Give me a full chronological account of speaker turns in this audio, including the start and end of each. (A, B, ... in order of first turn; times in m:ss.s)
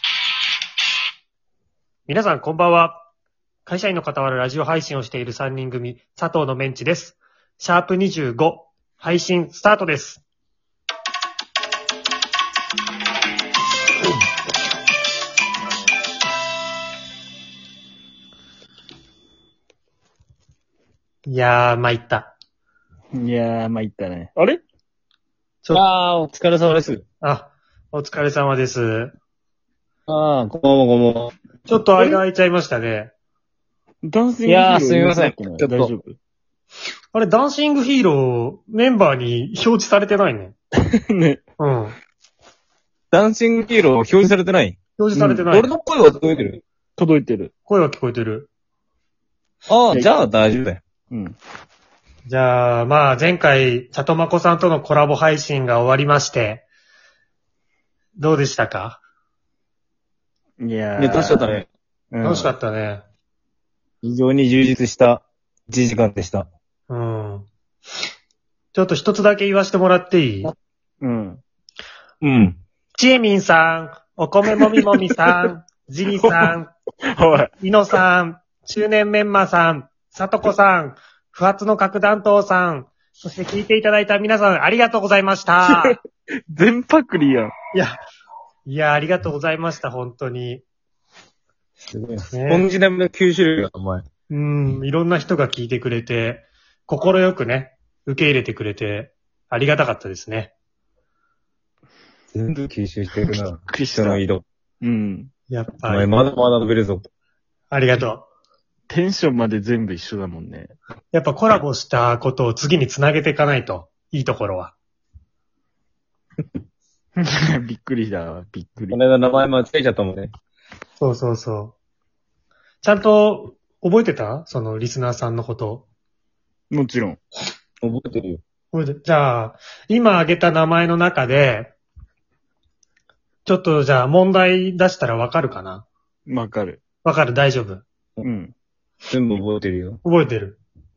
0:02.1-0:03.0 A
0:03.6-0:10.2 A
0:21.3-0:22.3 A
0:23.2-0:24.6 B
0:25.7-0:27.0 C
0:27.2-0:29.1 A
0:30.1-0:31.3 C
0:31.7-0:33.1 A
0:34.0-0:36.2 B
0:34.4-0:35.9 C
0:37.1-0:40.5 A
0:41.1-0:41.4 B
0:41.6-0:42.0 A
0:43.1-0:44.8 C
0:45.0-0:45.7 A
0:45.2-0:45.5 B
0:45.5-0:46.6 C
0:47.0-0:47.5 B
0:47.7-0:48.5 A
0:49.7-0:50.8 C
0:51.1-0:51.4 B
0:52.3-0:56.7 A
0:58.2-0:59.0 A
1:00.6-1:01.5 B
1:01.0-1:01.7 C
1:02.1-1:02.5 B
1:02.2-1:03.0 A
1:04.0-1:06.5 C
1:06.9-1:07.5 A
1:08.7-1:10.5 A
1:11.0-1:11.4 B
1:12.2-1:12.6 C
1:13.0-1:16.7 A
1:14.5-1:15.5 B
1:16.2-1:16.6 B
1:17.1-1:17.5 B
1:17.6-1:26.0 A
1:25.7-1:26.0 B
1:26.5-1:27.5 B
1:28.7-1:30.6 A
1:31.9-1:34.0 C
1:32.3-1:32.7 A
1:34.3-1:40.5 A
1:42.3-1:44.4 C
1:43.2-1:44.2 B
1:44.8-1:45.3 B
1:45.5-1:46.1 A
1:45.9-1:47.0 C
1:47.7-1:48.3 A
1:48.9-1:50.7 B
1:51.1-1:54.8 A
1:57.2-1:59.0 B
1:58.9-2:00.3 C
2:01.0-2:01.8 A
2:02.8-2:05.9 A
2:06.7-2:07.2 B
2:07.8-2:08.4 C
2:08.7-2:11.7 A
2:13.4-2:15.9 A
2:16.3-2:16.8 B
2:17.0-2:17.8 A
2:18.2-2:18.5 B
2:19.1-2:20.0 C
2:20.0-2:20.6 A